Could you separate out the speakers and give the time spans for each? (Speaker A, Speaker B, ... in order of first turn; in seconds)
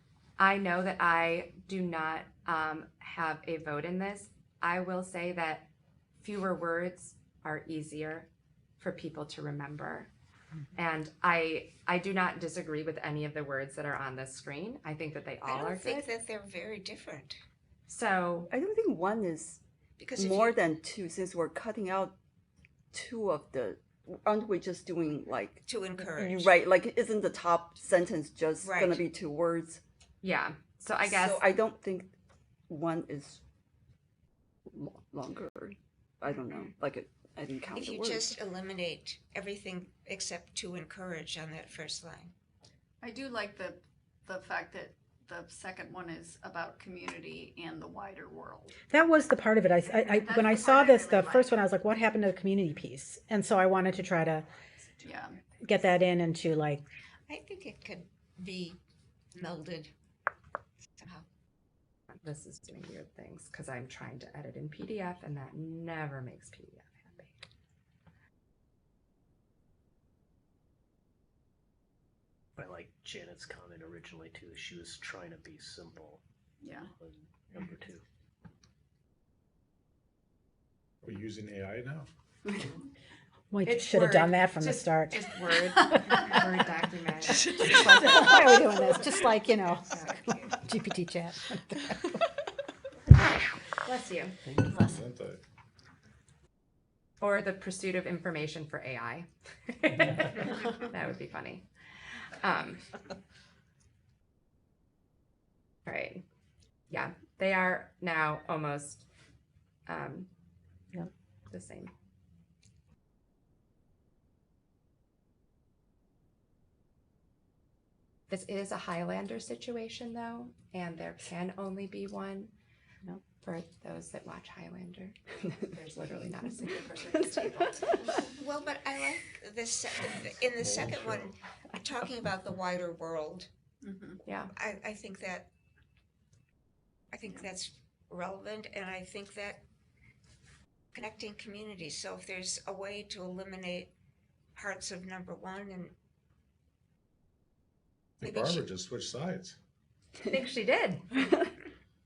Speaker A: 0.4-5.7, 6.2-8.3, 8.8-10.1, 10.8-16.1, 17.9-18.5, 30.2-31.4, 62.2-67.4, 83.6-88.0, 89.9-90.5, 93.8-94.3, 97.2-101.7, 102.4-102.8, 105.8-106.2, 106.9-109.0, 109.9-110.3, 111.5-111.9, 118.3-122.5, 123.4-128.0, 134.2-134.5, 150.2-151.1
Speaker B: 15.4-17.4, 20.0-20.6, 25.6-26.6, 28.6-29.1, 37.7-42.3, 57.3-58.8, 59.3-59.9, 61.0-61.2, 128.2-133.5, 134.5-135.5, 137.1-139.6, 140.9-143.9, 144.5-145.9, 148.2-148.6
Speaker C: 18.5-19.6, 20.1-22.1, 22.9-29.8, 31.0-32.1, 32.7-33.4, 34.7-38.2
Speaker D: 43.0-48.7, 49.9-51.6, 55.0-55.4, 76.6-76.9, 87.4-88.8, 94.6-94.9, 133.8-134.2
Speaker E: 48.9-54.5, 55.6-56.8, 83.5-85.2, 85.9-86.2, 87.5-90.0, 90.5-92.2
Speaker F: 72.5-76.2, 76.9-78.0
Speaker G: 81.0-82.1, 94.8-95.4, 130.6-131.3, 148.2-149.6